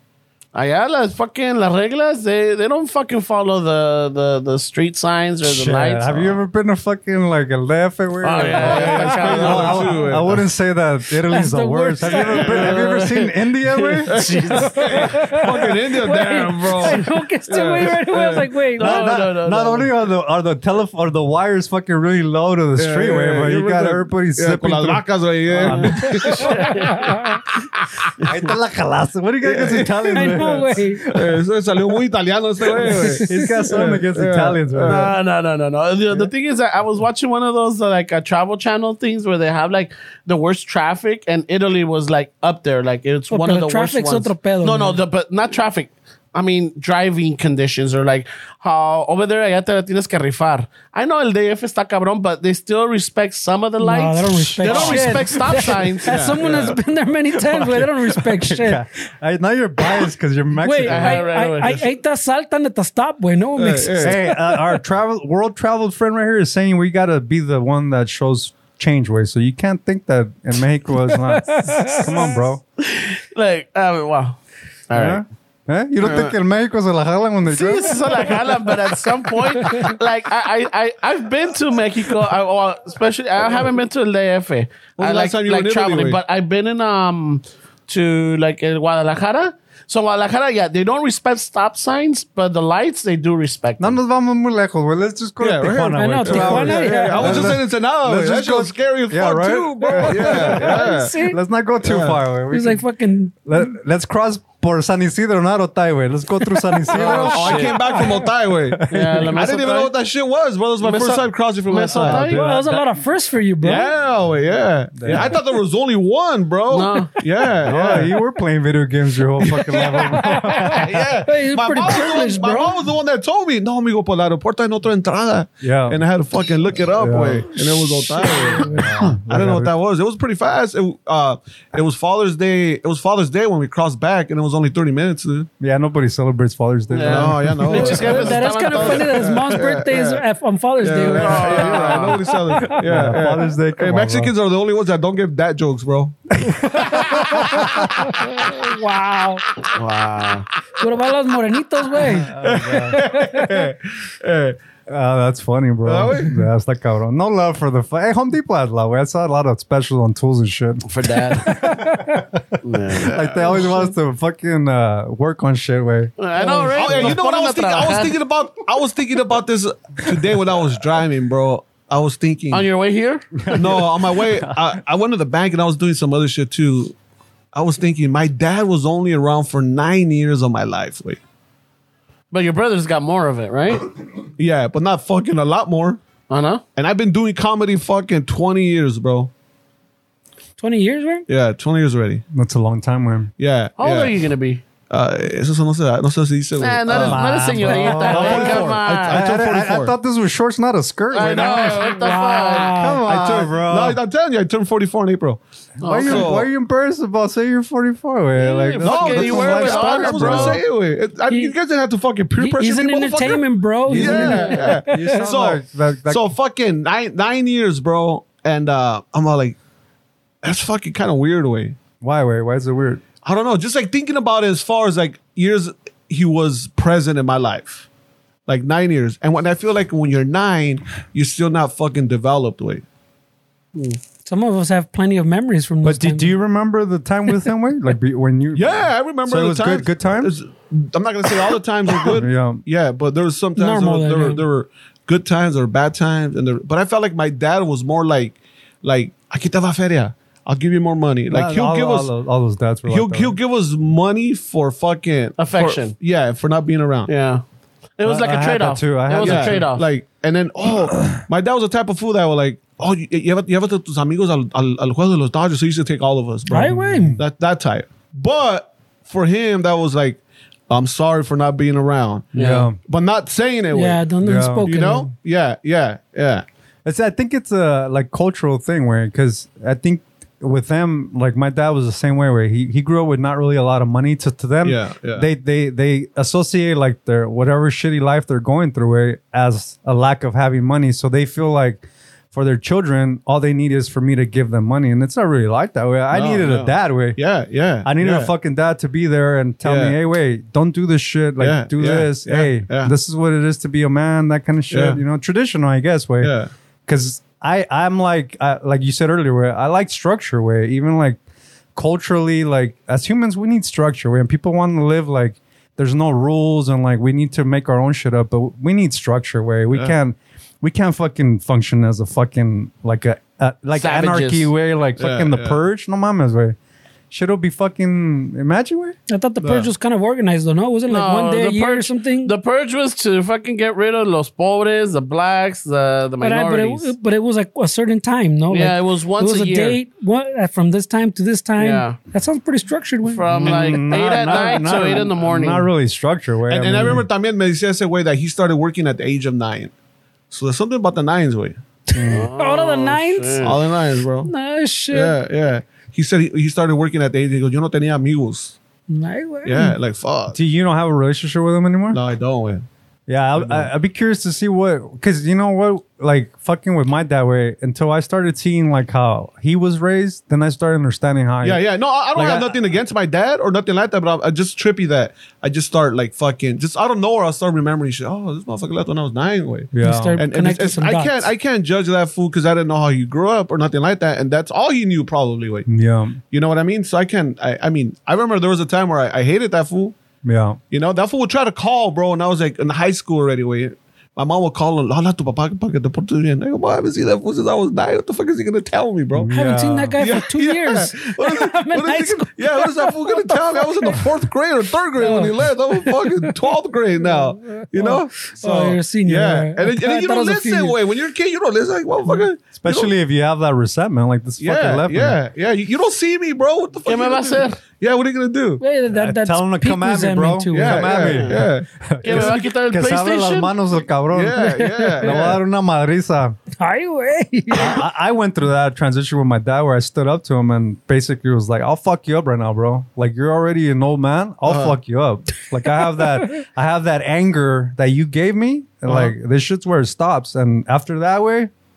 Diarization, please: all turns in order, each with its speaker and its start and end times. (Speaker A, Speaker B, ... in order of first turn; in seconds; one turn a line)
Speaker A: 0.5-6.4
Speaker B: 5.4-14.2
Speaker A: 8.2-10.1
Speaker C: 8.6-10.5
Speaker D: 11.3-12.6
Speaker A: 12.3-15.1
Speaker C: 12.4-12.8
Speaker C: 14.1-18.5
Speaker D: 14.5-19.1
Speaker A: 18.8-19.9
Speaker B: 18.8-26.2
Speaker C: 22.8-26.7
Speaker A: 25.6-27.1
Speaker D: 26.1-27.4
Speaker B: 28.2-31.4
Speaker C: 29.4-30.5
Speaker D: 30.1-31.1
Speaker C: 31.1-35.1
Speaker D: 32.7-33.9
Speaker B: 33.2-35.1
Speaker A: 34.8-56.3
Speaker D: 43.3-45.0
Speaker D: 53.8-58.8
Speaker B: 54.5-55.3
Speaker C: 56.1-56.8
Speaker B: 57.4-61.2
Speaker D: 60.6-64.8
Speaker A: 60.8-61.8
Speaker C: 63.5-64.2
Speaker B: 64.0-72.6
Speaker D: 71.0-72.4
Speaker A: 72.8-75.2
Speaker B: 74.9-78.5
Speaker A: 76.0-76.3
Speaker A: 77.5-94.0
Speaker C: 85.0-86.2
Speaker B: 93.8-102.8
Speaker C: 95.4-101.2
Speaker D: 95.9-97.5
Speaker D: 99.9-101.4
Speaker C: 101.8-102.2
Speaker D: 102.5-103.5
Speaker B: 103.5-108.0
Speaker D: 106.5-106.8
Speaker A: 106.9-107.8
Speaker C: 106.9-112.4
Speaker D: 107.8-108.2
Speaker B: 108.7-109.4
Speaker A: 108.9-109.9
Speaker A: 110.8-112.4
Speaker B: 111.9-113.0
Speaker D: 112.3-113.9
Speaker C: 113.6-118.1
Speaker B: 115.0-115.3
Speaker A: 116.7-117.1
Speaker B: 117.6-121.1
Speaker D: 119.4-122.9
Speaker C: 119.7-120.0
Speaker C: 120.6-135.5
Speaker B: 125.6-126.0
Speaker B: 126.9-127.5
Speaker D: 127.9-129.1
Speaker B: 128.6-129.7
Speaker B: 135.6-138.1
Speaker A: 136.9-139.4
Speaker C: 137.0-140.2
Speaker D: 137.7-142.8
Speaker C: 140.8-146.2
Speaker A: 140.9-142.3
Speaker B: 142.8-144.3
Speaker B: 146.4-148.0
Speaker D: 146.7-149.5
Speaker A: 149.7-150.5
Speaker D: 150.8-153.7
Speaker B: 152.2-153.0
Speaker C: 152.4-154.6
Speaker B: 154.9-166.1
Speaker C: 155.8-156.4
Speaker A: 160.8-161.8
Speaker D: 161.5-162.2
Speaker A: 162.6-163.2
Speaker C: 163.0-163.9
Speaker A: 166.2-168.2
Speaker D: 166.4-167.0
Speaker C: 166.7-172.7
Speaker A: 172.5-173.7
Speaker B: 173.4-174.6
Speaker C: 173.5-176.9
Speaker C: 177.5-181.2
Speaker A: 182.3-183.9
Speaker C: 184.4-186.0
Speaker A: 186.3-186.6
Speaker C: 186.7-189.3
Speaker D: 190.6-191.2
Speaker C: 191.3-192.2
Speaker B: 192.3-193.3
Speaker C: 193.4-194.2
Speaker A: 193.8-194.6
Speaker C: 194.9-199.9
Speaker A: 196.6-199.2
Speaker B: 196.9-201.9
Speaker A: 201.1-202.8
Speaker D: 201.3-203.0
Speaker B: 202.8-204.0
Speaker C: 203.1-205.4
Speaker A: 205.8-206.3
Speaker B: 205.8-210.6
Speaker C: 206.0-206.5
Speaker A: 208.4-210.6
Speaker C: 208.8-219.6
Speaker D: 212.4-215.3
Speaker B: 213.9-216.3
Speaker A: 214.0-214.6
Speaker C: 220.4-221.8
Speaker B: 222.0-223.0
Speaker C: 223.2-227.8
Speaker C: 228.5-232.8
Speaker D: 234.2-236.3
Speaker B: 235.8-240.3
Speaker C: 238.5-252.1
Speaker B: 242.1-242.6
Speaker D: 243.6-244.4
Speaker B: 251.3-253.4
Speaker C: 252.8-257.1
Speaker A: 255.4-255.9
Speaker A: 257.1-257.4
Speaker A: 258.0-259.9
Speaker B: 258.0-259.6
Speaker C: 259.2-274.1
Speaker D: 266.5-267.2
Speaker B: 266.5-267.2
Speaker A: 272.3-272.7
Speaker B: 272.4-272.8
Speaker D: 273.7-275.1
Speaker B: 274.2-274.7
Speaker C: 274.6-276.4
Speaker B: 276.8-297.2
Speaker C: 284.6-285.3
Speaker C: 296.1-298.3
Speaker B: 297.8-306.3
Speaker C: 299.6-300.0
Speaker C: 301.4-302.9
Speaker C: 304.7-305.0
Speaker C: 306.2-306.5
Speaker B: 306.9-311.2
Speaker B: 311.8-326.6
Speaker A: 323.7-324.5
Speaker C: 325.0-325.6
Speaker B: 327.1-328.9
Speaker D: 329.1-332.3
Speaker C: 329.4-329.7
Speaker A: 330.9-336.9
Speaker D: 336.2-343.8
Speaker A: 338.5-339.8
Speaker A: 341.6-342.0
Speaker A: 343.0-345.7
Speaker B: 343.3-347.1
Speaker C: 343.9-344.3
Speaker C: 346.5-349.7
Speaker C: 350.3-351.6
Speaker D: 351.9-353.6
Speaker B: 351.9-352.3
Speaker A: 352.0-353.6
Speaker C: 353.4-354.3
Speaker D: 354.2-355.2
Speaker C: 354.9-358.6
Speaker D: 358.9-359.8
Speaker C: 359.4-360.4
Speaker B: 360.3-362.0
Speaker C: 361.9-362.6
Speaker B: 363.1-371.6
Speaker C: 363.4-363.7
Speaker C: 371.4-385.7
Speaker B: 372.1-372.5
Speaker B: 379.7-380.2
Speaker D: 379.8-381.3
Speaker B: 385.7-386.2
Speaker C: 386.3-389.9
Speaker B: 390.2-390.6
Speaker C: 390.7-399.3
Speaker B: 399.1-400.0
Speaker D: 399.3-404.2
Speaker C: 400.0-412.9
Speaker D: 405.0-406.3
Speaker D: 407.0-410.8
Speaker B: 412.6-415.2
Speaker C: 414.4-418.6
Speaker A: 416.8-417.6
Speaker D: 418.6-421.0
Speaker B: 418.9-424.5
Speaker C: 420.5-422.4
Speaker A: 421.0-421.4
Speaker A: 422.0-423.5
Speaker C: 424.1-425.4
Speaker D: 424.4-425.2
Speaker B: 425.0-426.4
Speaker D: 426.6-427.8
Speaker B: 427.5-441.5
Speaker C: 434.4-434.8
Speaker C: 438.9-439.1